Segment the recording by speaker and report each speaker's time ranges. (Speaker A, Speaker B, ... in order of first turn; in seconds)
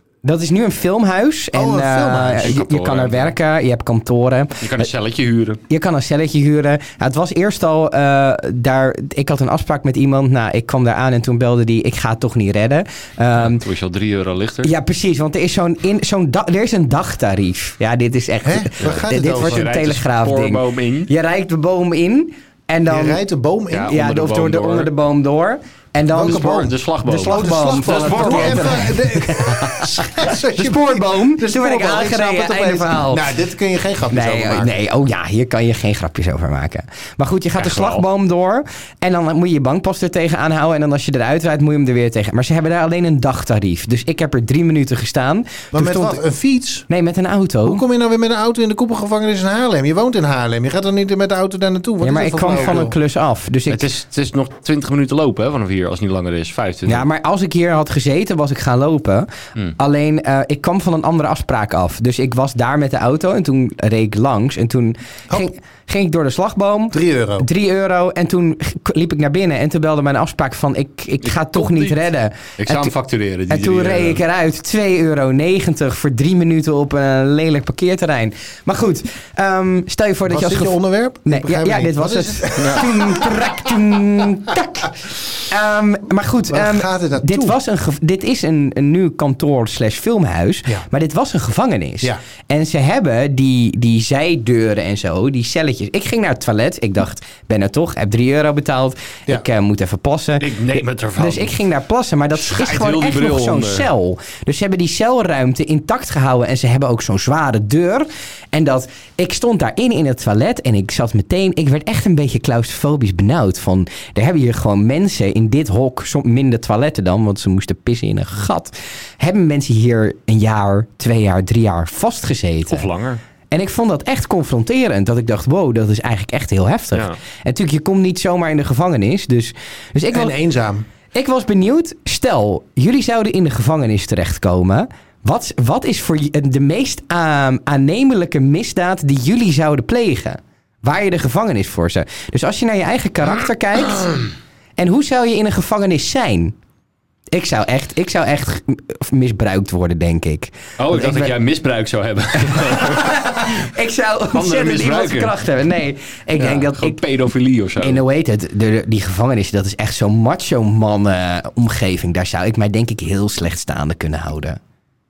Speaker A: 0.2-4.9, 5.7-13.6, 14.6-23.2, 23.9-33.3, 34.1-46.2, 46.9-47.8, 52.0-53.9, 56.9-72.9, 73.5-85.0, 85.5-122.9, 123.5-130.4, 131.1-144.1, 144.8-146.6, 147.3-151.3, 152.5-157.0, 157.8-164.6
Speaker B: 1.5-2.6, 18.4-19.7, 22.9-24.0, 26.1-34.8, 45.7-46.9, 47.6-53.0, 66.9-67.5, 80.3-83.8, 86.5-87.6, 130.1-130.9
Speaker C: 2.4-3.4, 4.6-5.6, 13.4-14.7, 18.8-21.1, 23.7-24.9, 26.2-28.8, 37.6-38.0, 53.7-57.1, 71.2-72.0, 72.6-74.2, 82.6-82.8, 100.4-101.6, 102.4-103.9, 122.7-123.2, 126.9-127.2, 150.8-153.7, 154.3-155.3, 156.4-158.0